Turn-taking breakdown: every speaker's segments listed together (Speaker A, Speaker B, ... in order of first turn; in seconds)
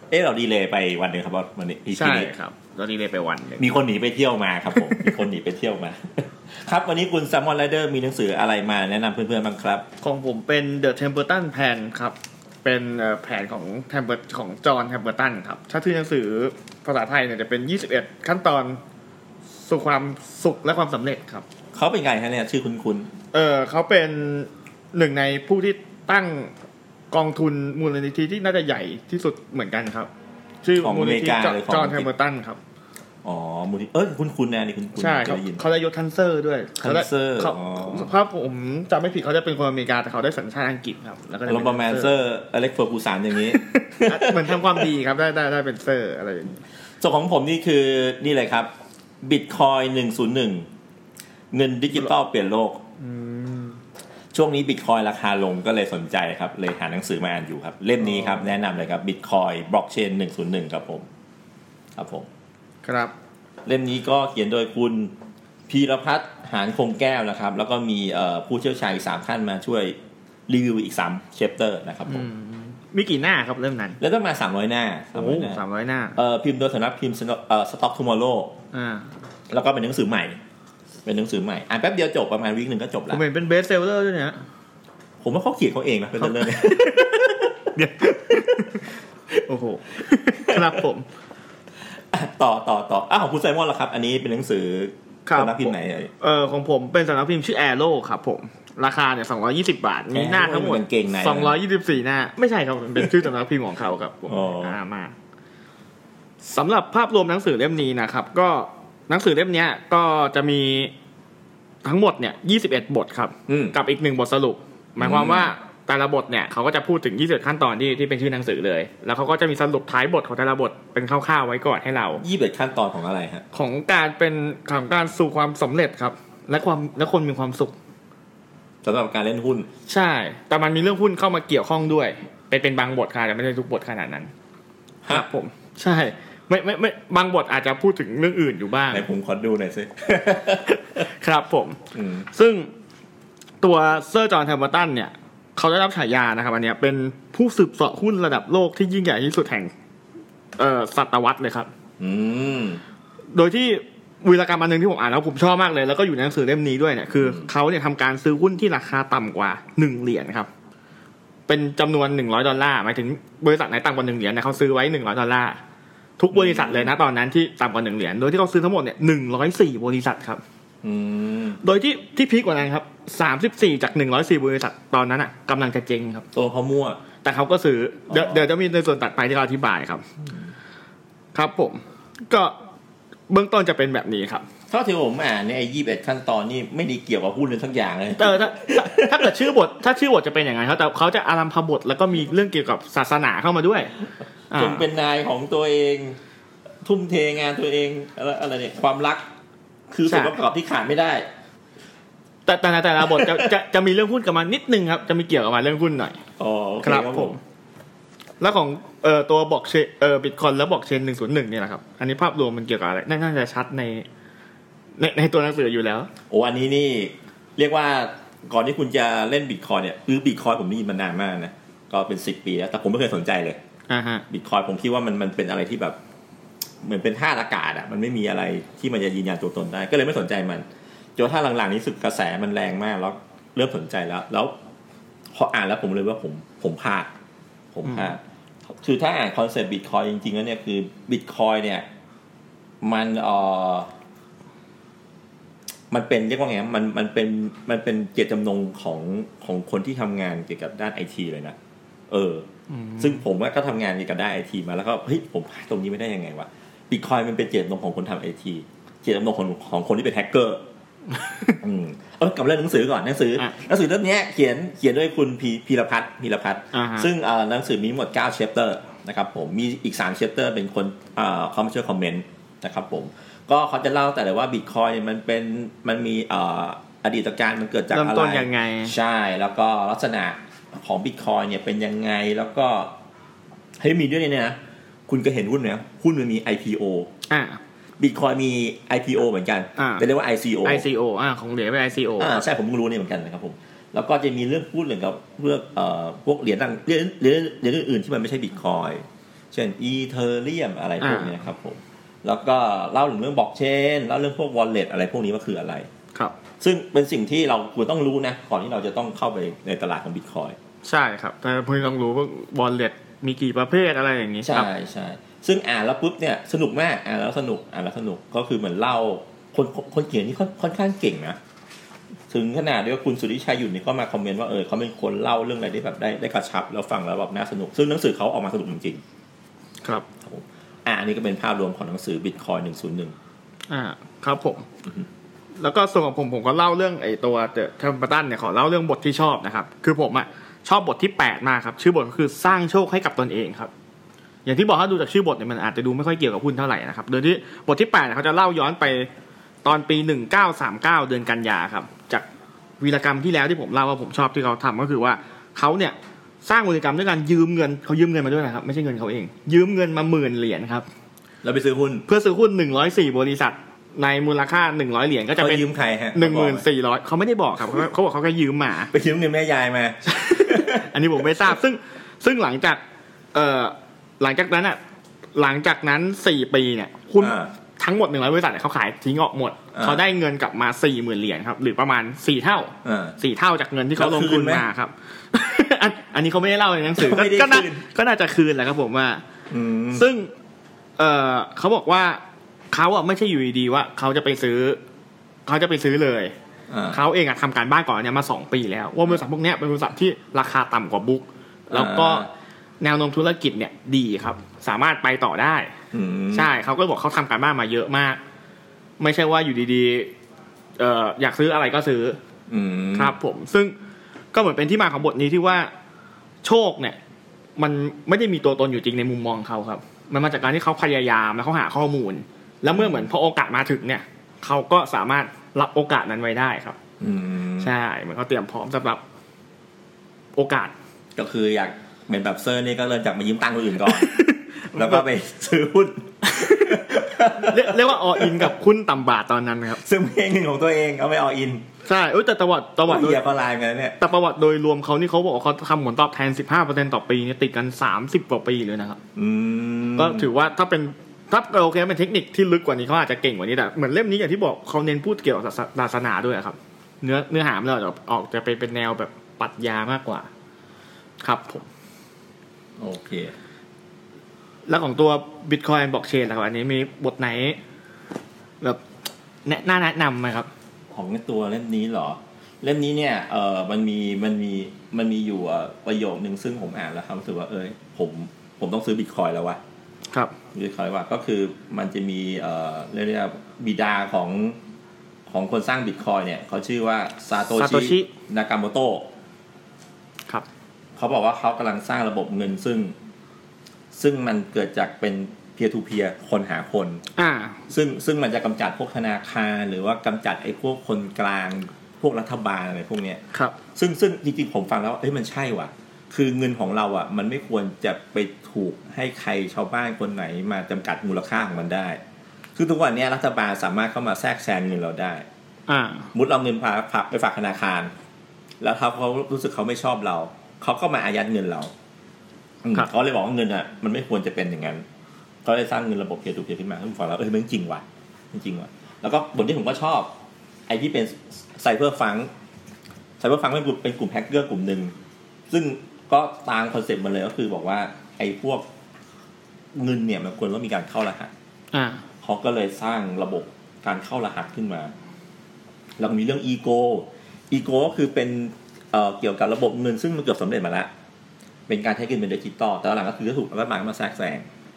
Speaker A: 0.1-2.3, 3.6-9.8, 21.7-23.1, 30.8-32.1, 33.2-35.6, 36.8-38.1, 41.5-44.9, 47.0-48.7, 49.2-50.7, 51.5-52.8, 54.3-61.1, 62.0-62.3, 63.6-65.1, 65.7-70.0, 70.5-72.3, 74.0-75.6, 76.2-78.5, 79.5-80.4, 81.0-83.2, 85.2-87.7, 90.5-90.8, 92.1-96.1, 100.1-101.6, 104.3-104.8, 113.5-113.8, 115.0-115.5, 122.2-123.4, 128.8-129.7, 138.9-141.0, 141.9-142.3, 152.0-152.8, 157.2-157.5, 166.3-166.9, 170.8-171.6, 176.3-177.0, 178.1-178.5, 184.7-189.5, 194.5-196.2, 196.8-199.2, 199.9-201.3, 203.0-203.5, 206.4-207.3, 216.3-223.6, 224.3-226.0, 226.8-230.6, 231.2-234.5, 235.3-237.1, 237.7-241.8, 242.8-243.9, 245.9-251.6, 252.1-252.4, 253.0-260.6, 261.6-282.9, 283.8-284.6, 285.1-287.1, 288.0-290.8, 292.2-305.9, 306.6-310.6, 314.4-321.4, 322.3-329.0, 330.2-333.1, 361.4-362.0, 365.4-366.6, 368.9-370.9, 377.2-377.5, 379.7-380.0, 382.8-383.1, 383.9-384.6, 387.0-387.8, 389.5-390.1, 396.7-397.0, 401.7-402.3, 405.9-406.5, 412.5-413.2, 422.8-423.0, 427.0-427.7, 431.1-434.2, 434.7-438.5, 439.7-441.6, 442.8-444.0, 449.1-450.3, 462.8-463.3, 470.9-479.6, 480.5-484.6, 485.3-489.1, 490.9-492.9, 493.9-497.0, 497.7-503.2, 503.7-512.0, 512.5-515.2, 516.1-517.9, 518.6-521.7, 522.6-524.8, 525.4-530.1, 530.7-532.3, 533.2-534.9, 535.5-538.6, 539.7-541.3, 542.2-544.9, 546.0-550.9, 551.7-554.5
Speaker B: 1.9-3.7, 4.7-5.2, 10.0-18.8, 19.6-21.4, 23.3-26.5, 27.1-30.1, 30.6-32.6, 35.0-42.1, 43.4-46.6, 53.0-53.8, 58.0-58.5, 62.8-63.1, 72.1-74.0, 75.1-76.2, 78.7-79.1, 83.1-84.4, 86.2-91.0, 95.2-105.1, 106.4-110.9, 111.8-122.2, 123.5-127.7, 129.9-134.3, 135.1-139.1, 141.0-141.8, 142.3-142.7, 143.6-149.7, 150.6-151.7, 153.3-160.5, 161.5-165.6, 166.2-170.4, 171.6-176.2, 177.2-180.0, 181.3-182.5, 183.3-184.4, 188.2-193.9, 194.5-194.8, 200.1-200.4, 202.4-206.2, 206.8-207.4, 208.4-214.1, 215.0-216.1, 223.9-224.2, 237.8-238.1, 252.7-253.2, 261.2-261.6, 266.7-267.1, 277.9-278.9, 287.3-287.6, 289.8-290.1, 290.6-292.4, 301.0-301.3, 310.8-314.7, 333.7-334.6, 335.6-343.7, 344.4-349.1, 349.6-352.2, 352.8-360.9, 362.1-368.9, 370.1-372.8, 373.3-374.8, 375.4-389.2, 389.9-390.3, 391.0-392.2, 392.7-394.8, 395.5-396.3, 396.9-402.3, 402.8-405.7, 406.3-408.2, 409.0-410.1, 410.8-412.2, 412.9-413.7, 414.3-415.7, 416.4-417.0, 417.6-426.8, 427.6-429.0, 430.4-430.7, 433.8-435.0, 436.2-436.9, 437.4-439.8, 441.8-443.2, 444.0-449.0, 450.0-460.3, 461.2-461.6, 464.7-467.6, 469.4-470.5, 487.5-488.1, 497.2-497.6, 515.7-516.1, 541.7-542.0